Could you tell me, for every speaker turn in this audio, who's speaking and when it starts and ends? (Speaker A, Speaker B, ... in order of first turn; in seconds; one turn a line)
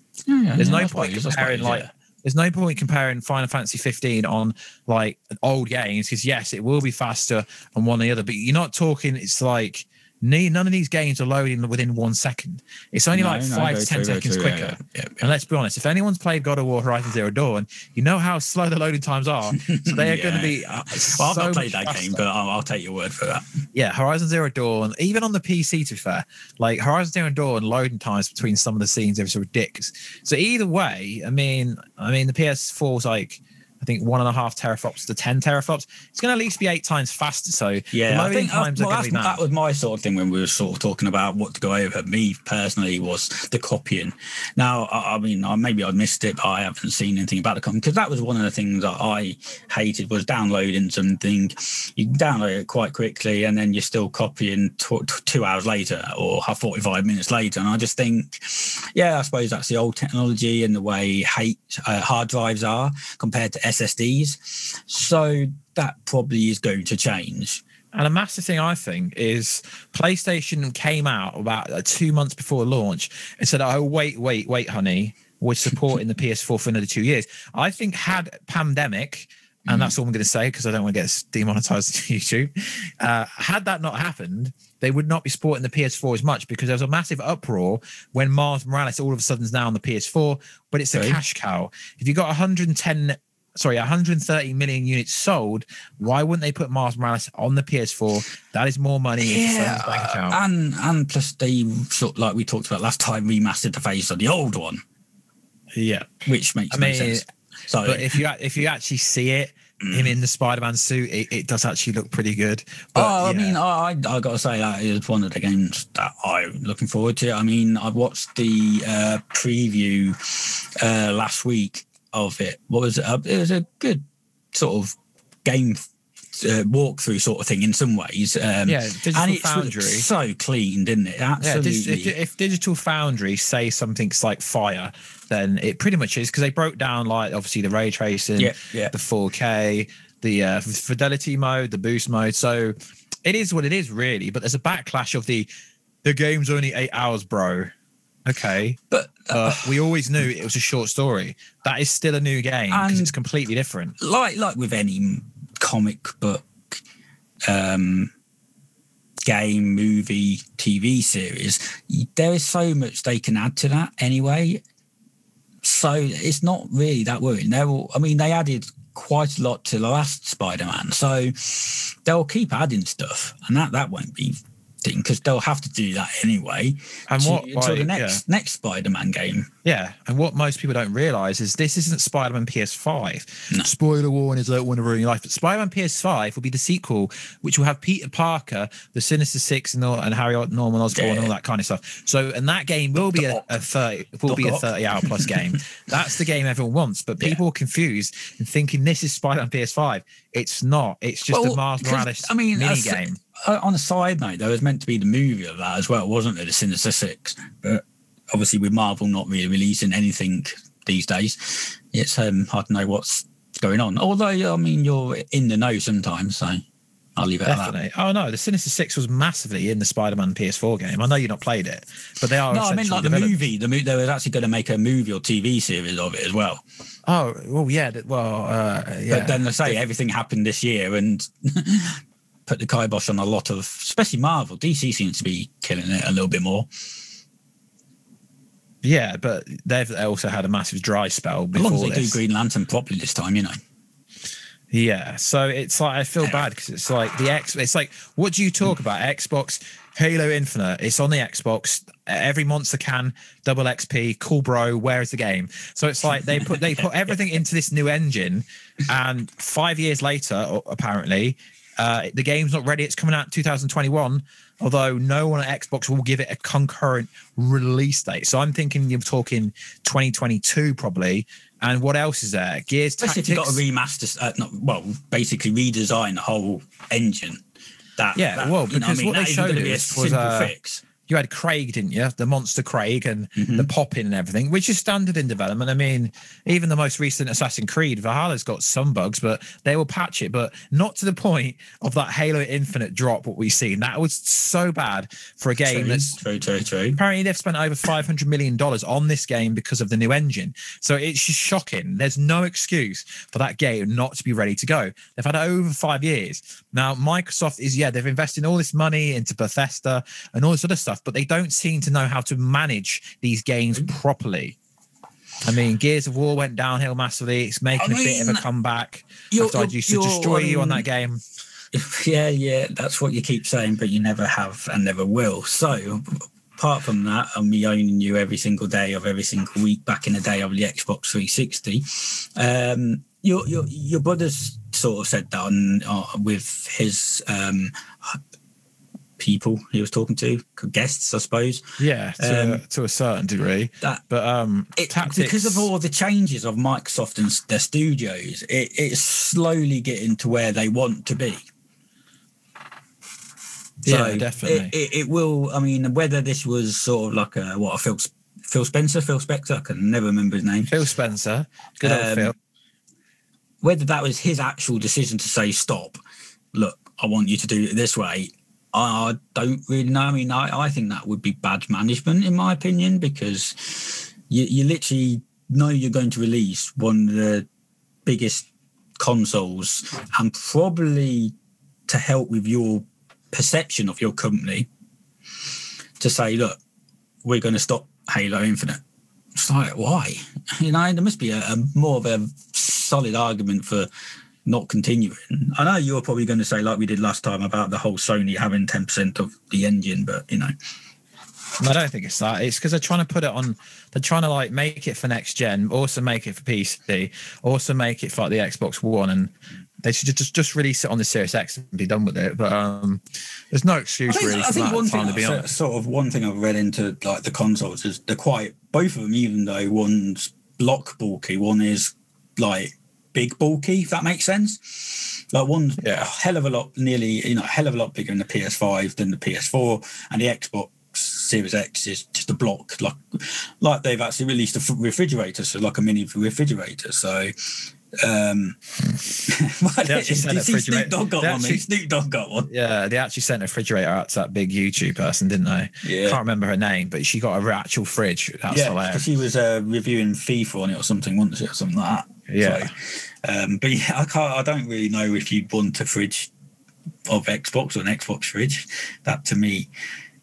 Speaker A: 0.3-1.9
Speaker B: 0.6-22.2
Speaker A: 13.1-15.3
Speaker A: 19.6-23.6
Speaker B: 23.7-39.4
Speaker A: 37.9-67.6
Speaker B: 67.9-100.4
Speaker A: 79.7-79.9
Speaker A: 90.9-91.2
Speaker A: 99.2-104.8
Speaker B: 105.7-107.2
Speaker A: 106.2-108.2
Speaker B: 107.8-113.6
Speaker A: 109.8-110.1
Speaker A: 112.9-125.8
Speaker A: 126.3-132.1
Speaker B: 128.7-130.1
Speaker B: 131.4-145.5
Speaker A: 138.4-138.9
Speaker B: 146.0-147.7
Speaker B: 148.2-148.8
Speaker A: 148.9-149.9
Speaker B: 149.3-153.9
Speaker A: 152.7-153.1
Speaker A: 154.0-156.8
Speaker A: 157.5-158.1
Speaker A: 159.2-164.6
Speaker A: 165.6-179.5
Speaker B: 177.1-178.2
Speaker B: 179.6-203.2
Speaker A: 190.9-191.3
Speaker A: 193.0-193.5
Speaker A: 194.3-195.6
Speaker A: 201.3-216.6
Speaker A: 217.2-217.7
Speaker B: 217.4-223.4
Speaker A: 222.5-226.6
Speaker B: 227.1-229.8
Speaker A: 229.1-236.7
Speaker B: 238.8-242.2
Speaker A: 241.5-243.6
Speaker B: 244.7-273.6
Speaker A: 256.2-256.5
Speaker A: 273.0-277.4
Speaker A: 278.0-280.8
Speaker B: 278.1-280.5
Speaker B: 281.1-296.1
Speaker A: 283.4-283.7
Speaker A: 295.6-297.0
Speaker B: 297.0-314.6
Speaker B: 315.4-321.2
Speaker A: 317.7-318.4
Speaker A: 319.3-320.8
Speaker A: 321.7-338.2
Speaker A: 339.2-341.6
Speaker B: 341.8-345.7
Speaker A: 342.2-342.6
Speaker A: 344.8-351.4
Speaker A: 353.8-360.7
Speaker B: 353.9-354.7
Speaker B: 360.7-362.3
Speaker A: 361.8-362.3
Speaker A: 363.6-366.0
Speaker A: 366.5-377.5
Speaker A: 378.1-381.3
Speaker A: 381.9-384.7
Speaker A: 386.0-386.6
Speaker A: 387.2-388.8
Speaker A: 389.4-393.9
Speaker A: 394.4-400.5
Speaker B: 401.6-415.5
Speaker A: 414.1-442.5
Speaker B: 425.8-426.1
Speaker B: 439.9-441.6
Speaker B: 442.5-449.0
Speaker A: 445.8-446.2
Speaker A: 448.5-456.3
Speaker B: 452.3-452.7
Speaker A: 457.1-459.7